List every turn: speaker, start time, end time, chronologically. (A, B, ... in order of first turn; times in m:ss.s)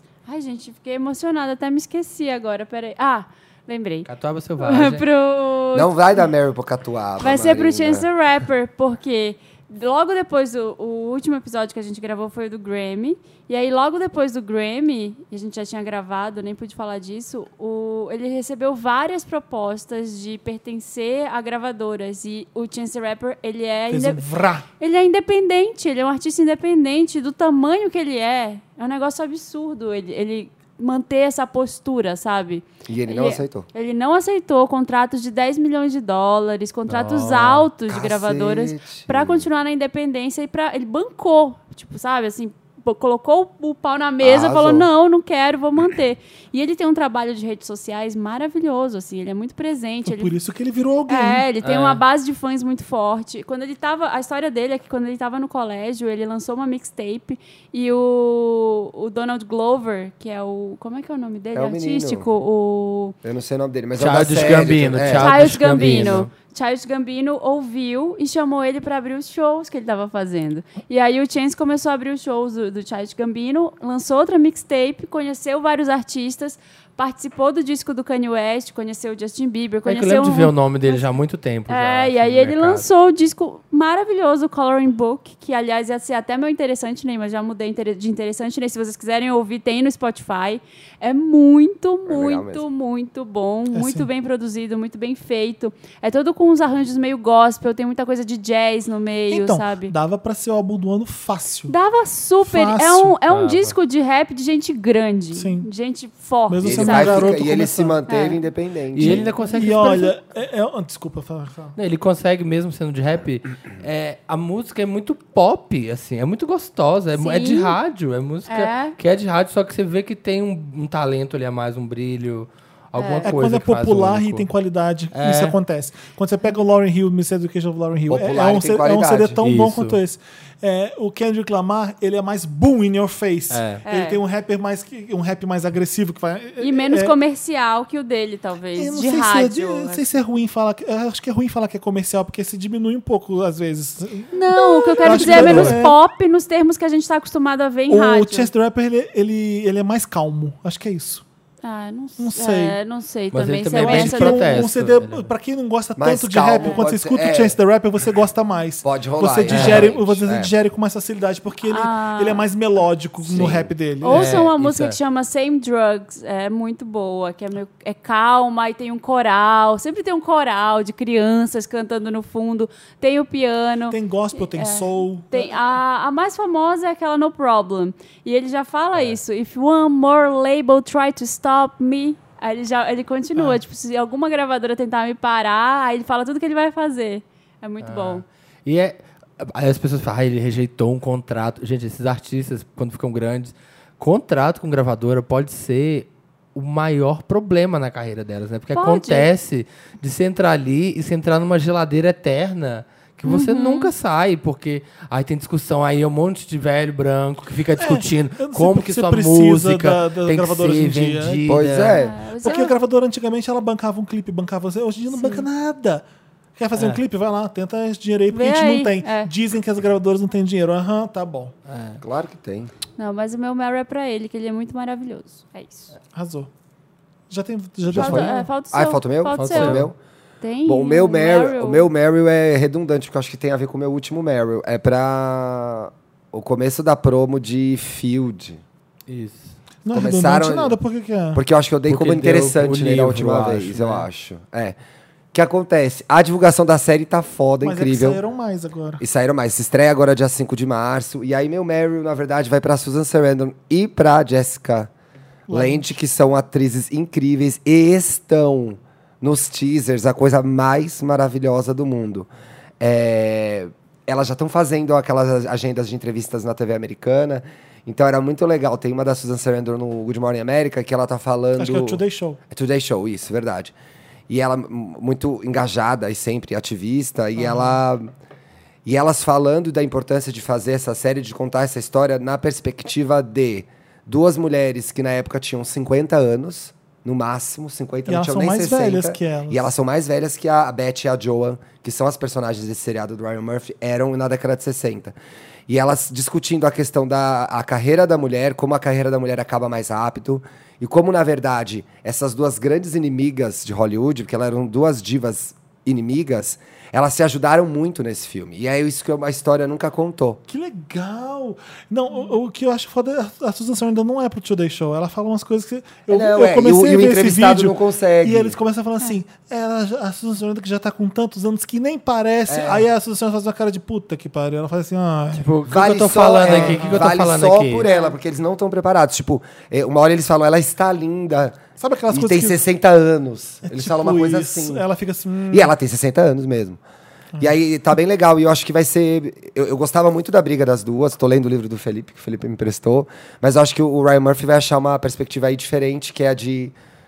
0:00.3-0:04.1 A
0:04.1-0:05.0 B
0:04.6-0:06.3 A
0:05.7-0:08.1 C
0:07.2-0:24.2 A
0:23.9-0:24.7 D
0:24.8-0:50.3 A
0:32.9-0:33.7 C
0:36.9-0:37.7 B
0:37.9-0:39.4 C
0:44.2-0:44.9 C
0:50.1-0:51.4 D
0:51.1-1:03.2 A
0:51.6-0:52.0 B
1:01.5-1:02.3 C
1:03.2-1:06.2 C
1:04.0-1:06.3 B
1:05.2-1:21.1 A
1:19.9-1:22.9 B
1:21.7-1:39.9 A
1:32.1-1:32.6 C
1:33.7-1:34.1 D
1:39.3-1:41.7 D
1:41.7-1:47.3 A
1:42.4-1:43.2 D
1:43.3-1:43.7 B
1:45.3-1:45.7 D
1:46.5-1:48.0 D
1:46.6-1:49.3 C
1:48.1-1:48.4 A
1:49.0-1:50.1 B
1:49.0-1:51.8 D
1:51.8-2:04.5 B
1:57.2-1:57.8 A
1:58.5-1:59.0 A
2:03.0-2:03.3 A
2:03.2-2:17.1 D
2:05.1-2:05.6 B
2:08.1-2:09.4 C
2:09.4-2:10.0 B
2:13.5-2:13.8 B
2:13.9-2:14.2 A
2:16.6-2:20.1 A
2:18.8-2:26.0 D
2:24.3-2:28.5 A
2:25.0-2:25.8 B
2:27.9-2:31.2 D
2:31.6-2:34.6 A
2:32.2-2:32.8 D
2:33.3-2:35.3 B
2:33.8-2:44.3 D
2:36.0-2:37.6 C
2:36.6-2:36.8 A
2:38.8-2:40.5 C
2:39.5-2:40.0 B
2:41.7-2:42.4 A
2:43.3-2:43.6 C
2:44.0-3:08.2 A
2:44.1-2:45.0 B
2:53.9-2:55.6 D
3:07.8-3:32.0 B
3:18.7-3:19.3 A
3:23.2-3:23.9 A
3:27.8-3:31.4 D
3:31.4-3:32.2 C
3:31.9-3:32.7 A
3:32.4-3:36.0 D
3:35.1-3:35.5 A
3:36.6-3:41.5 D
3:38.3-3:39.3 A
3:41.7-3:42.0 B
3:42.0-3:42.7 C
3:43.0-3:45.9 A
3:46.1-3:46.5 D
3:47.3-3:48.5 D
3:47.9-3:50.0 C
3:47.9-3:49.9 A
3:49.4-3:49.9 B
3:50.4-3:51.9 A
3:50.7-3:58.6 C
3:59.1-3:59.6 B
3:59.8-4:01.4 D
3:59.9-4:00.8 C
4:01.3-4:04.8 C
4:01.9-4:04.1 B
4:05.3-4:08.2 C
4:07.6-4:09.0 D
4:09.0-4:14.9 C
4:15.5-4:15.9 D
4:15.5-4:22.3 C
4:22.8-4:33.7 C
4:31.6-4:32.4 D
4:34.3-4:38.1 C
4:37.4-4:37.8 D
4:38.8-4:55.2 C
4:48.1-4:49.7 D
4:55.7-5:10.4 C
5:10.5-5:25.5 D
5:16.1-5:18.6 C
5:22.5-5:22.9 C
5:25.3-5:27.9 B
5:25.7-5:34.8 C
5:26.4-5:27.1 D
5:27.8-5:28.2 A
5:31.8-5:32.6 D
5:33.7-5:35.7 D
5:35.5-5:36.8 C
5:37.4-5:46.7 C